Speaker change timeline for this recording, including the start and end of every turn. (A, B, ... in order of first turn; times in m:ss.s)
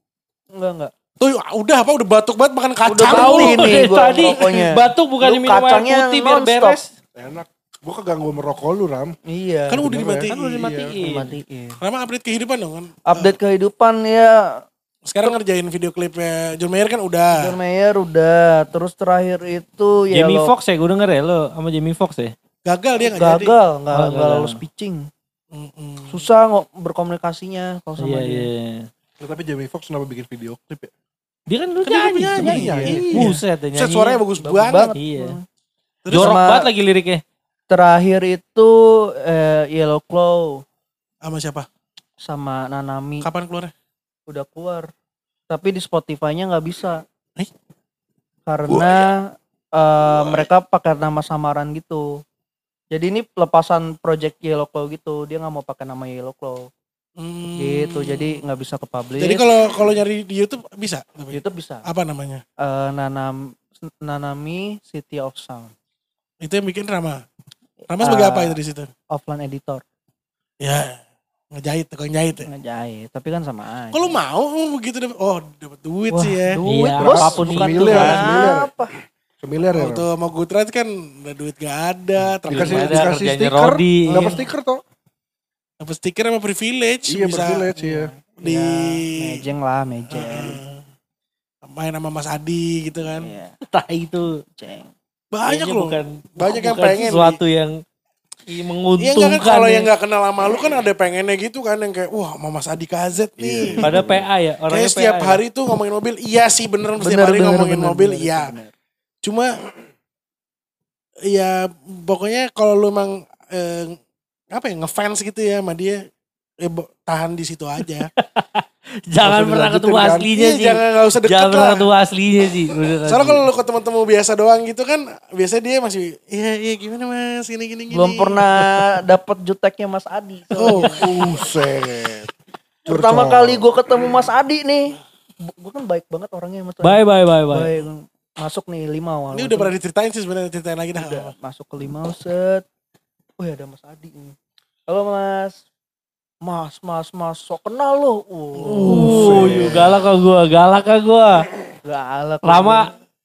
0:00.5-0:00.9 A
0:01.2-0:04.4 B
0:02.8-0:06.8 A
0:03.0-0:06.9 C
0:07.2-0:09.2 D
0:09.3-0:09.9 A
0:09.7-0:10.6 B
0:09.7-0:10.9 D
0:10.3-0:11.4 C
0:10.5-0:11.8 A
0:11.8-0:13.3 B
0:13.1-0:14.6 A
0:15.0-0:17.4 B
0:17.4-0:20.5 A
0:20.1-0:22.3 C
0:22.6-0:23.6 B
0:23.0-0:25.1 A
0:23.9-0:24.6 C
0:25.5-0:26.2 B
0:26.1-0:28.5 A
0:28.0-0:28.9 C
0:29.2-0:30.9 D
0:31.5-0:34.2 C
0:31.8-0:34.9 B
0:32.4-0:33.2 D
0:32.7-0:33.4 A
0:34.4-0:35.4 A
0:34.9-0:35.4 C
0:36.0-0:36.4 B
0:36.1-0:37.2 C
0:36.1-0:36.7 A
0:37.7-0:40.6 A
0:41.2-0:41.7 B
0:42.2-0:43.3 A
0:43.2-0:43.7 B
0:44.3-0:44.9 A
0:45.5-0:47.0 A
0:48.4-0:52.2 A
0:48.7-0:49.0 D
0:52.9-0:56.7 A
0:57.2-0:58.4 B
0:57.6-0:59.5 A
0:59.2-1:02.4 B
1:01.3-1:01.8 A
1:02.6-1:05.7 A
1:06.4-1:07.2 B
1:07.8-1:08.6 A
1:07.9-1:08.9 B
1:09.1-1:09.8 A
1:10.6-1:11.0 B
1:11.5-1:12.5 B
1:12.4-1:14.2 A
1:13.9-1:16.6 B
1:16.1-1:18.9 A
1:16.6-1:18.3 C
1:17.0-1:18.7 D
1:19.4-1:20.0 D
1:19.7-1:23.1 B
1:22.4-1:24.8 D
1:22.5-1:24.3 C
1:24.1-1:24.4 B
1:25.8-1:27.7 B
1:27.1-1:28.1 D
1:27.7-1:30.6 A
1:28.4-1:29.4 B
1:30.1-1:30.8 B
1:31.6-1:33.3 B
1:33.2-1:33.5 A
1:33.6-1:34.4 C
1:34.5-1:34.9 A
1:35.3-1:37.4 B
1:35.5-1:37.8 C
1:38.5-1:39.9 C
1:39.0-1:43.8 B
1:43.4-1:44.3 D
1:43.8-1:45.4 C
1:44.7-1:48.5 B
1:47.0-1:48.7 A
1:49.2-1:49.5 B
1:51.3-1:53.9 B
1:54.5-1:56.0 B
1:56.6-1:58.1 B
1:58.2-2:03.4 C
1:59.2-2:00.3 D
2:00.3-2:01.9 B
2:03.0-2:08.8 B
2:07.9-2:11.2 A
2:10.5-2:11.2 B
2:11.0-2:12.3 D
2:12.9-2:19.7 A
2:12.9-2:13.7 D
2:16.8-2:17.8 C
2:19.3-2:21.3 B
2:21.0-2:22.6 A
2:23.4-2:24.4 A
2:24.9-2:25.6 A
2:26.4-2:29.8 A
2:28.5-2:29.3 B
2:28.7-2:31.4 C
2:28.8-2:30.0 D
2:31.8-2:32.9 A
2:32.4-2:32.8 C